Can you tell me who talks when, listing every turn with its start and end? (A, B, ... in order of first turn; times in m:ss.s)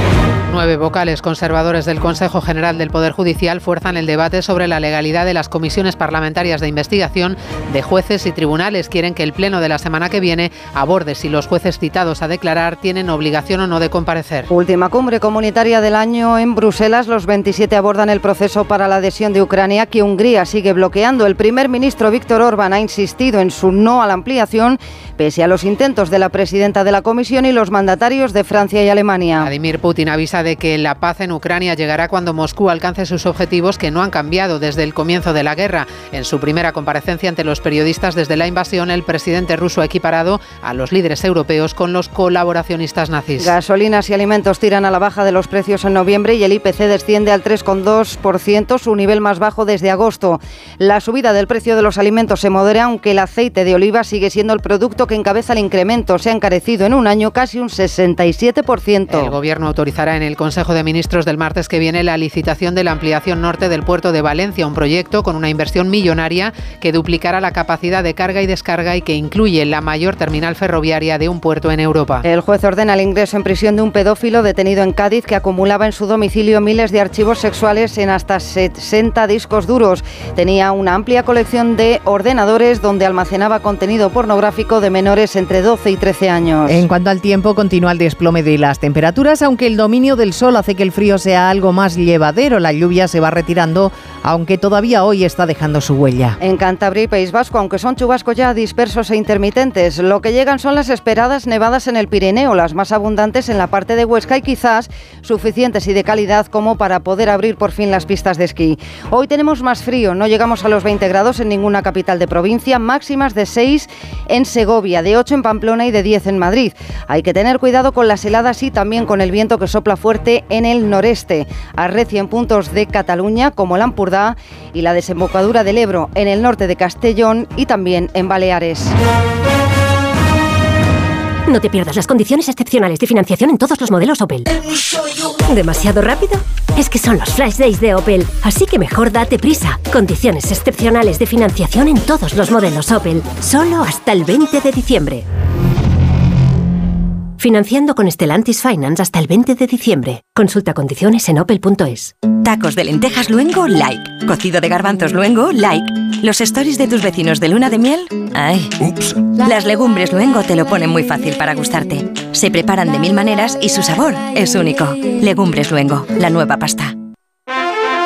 0:00.5-0:14.5 A
0:14.5-0:29.5 B
0:29.4-0:43.6 A
0:43.4-0:59.3 B
0:59.1-1:12.2 A
1:12.2-1:26.8 B
1:26.7-1:36.4 C
1:36.4-2:08.9 B
2:11.5-2:14.6 D
2:15.2-2:25.2 D
2:27.4-2:32.1 D
2:32.4-2:46.9 E